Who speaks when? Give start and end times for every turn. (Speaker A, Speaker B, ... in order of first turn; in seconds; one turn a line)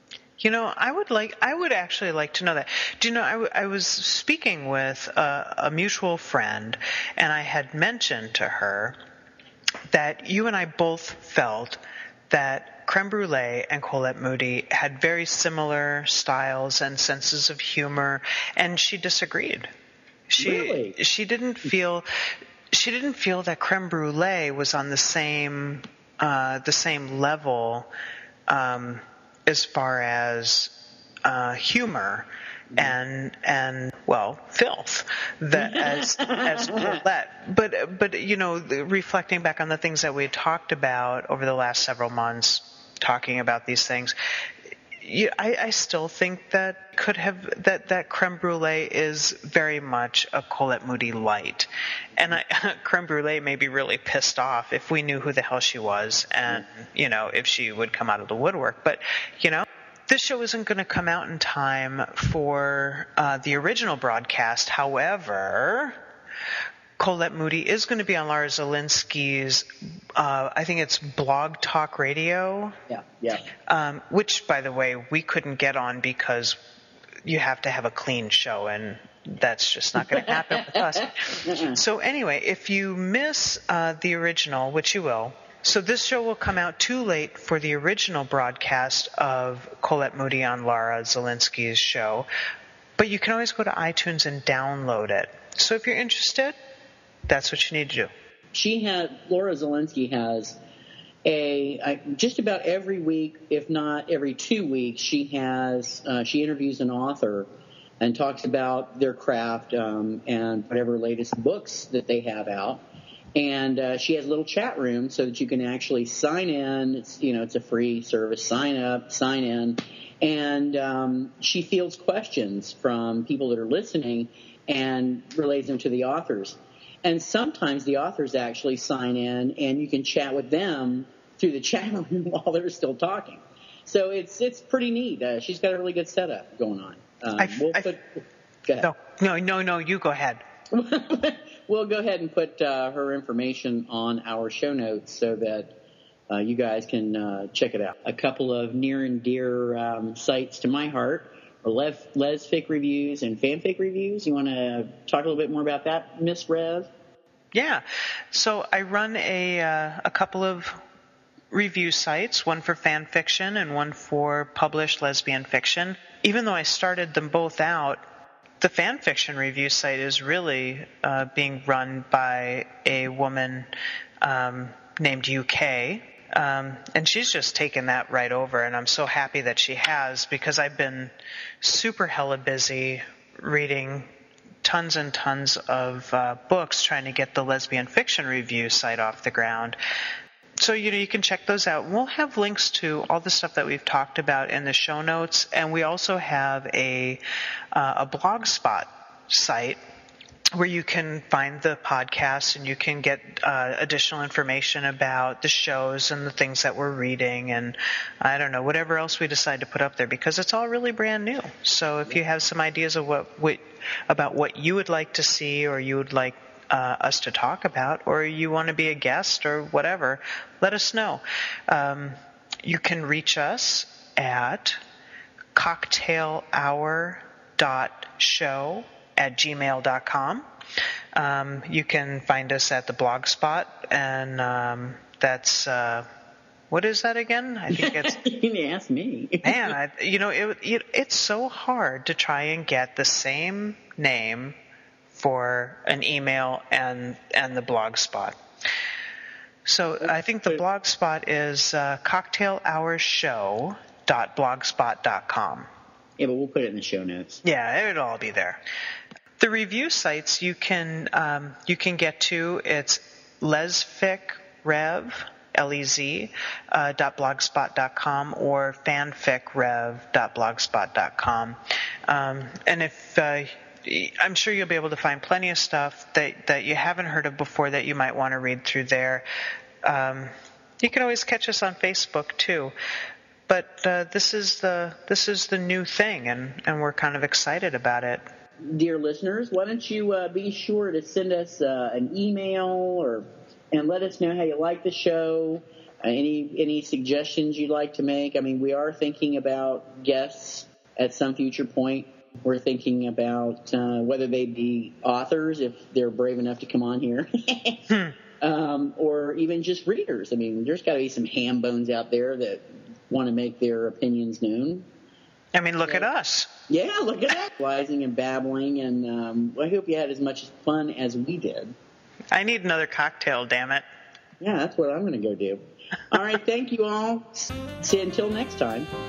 Speaker A: 0.4-9.0
Speaker A: 9.9-19.7
Speaker A: 20.3-22.1
Speaker B: 20.4-20.9
Speaker A: 22.7-27.9
Speaker A: 28.5-30.7
Speaker A: 31.2-44.1
Speaker B: 35.5-37.0
Speaker A: 45.0-66.0
Speaker A: 67.0-72.7
Speaker B: 72.9-73.5
Speaker A: 73.7-76.6
Speaker A: 77.2-92.3
Speaker B: 80.0-81.8
Speaker A: 93.0-96.5
Speaker A: 97.3-98.1
Speaker B: 98.5-100.6
Speaker B: 101.2-107.5
Speaker B: 108.0-112.8
Speaker B: 113.3-138.9
Speaker A: 137.4-137.9
Speaker A: 138.8-140.4
Speaker B: 140.7-145.7
Speaker B: 146.3-156.9
Speaker A: 157.5-160.8
Speaker A: 161.5-168.0
Speaker A: 168.6-173.7
Speaker A: 174.2-184.1
Speaker A: 184.6-189.8
Speaker A: 190.6-197.2
Speaker A: 197.7-199.8
Speaker A: 200.6-224.8
Speaker A: 225.5-230.4
Speaker A: 231.1-236.1
Speaker A: 236.7-238.2
Speaker B: 237.7-239.7
Speaker A: 239.4-244.6
Speaker A: 245.1-248.3
Speaker A: 249.6-255.7
Speaker B: 250.0-250.6
Speaker B: 256.2-257.4
Speaker A: 257.4-258.6
Speaker A: 259.4-279.2
Speaker A: 279.8-282.7
Speaker A: 283.5-288.2
Speaker B: 288.6-314.9
Speaker A: 307.9-308.1
Speaker A: 315.5-316.5
Speaker B: 316.7-321.7
Speaker A: 322.3-323.8
Speaker B: 324.4-328.9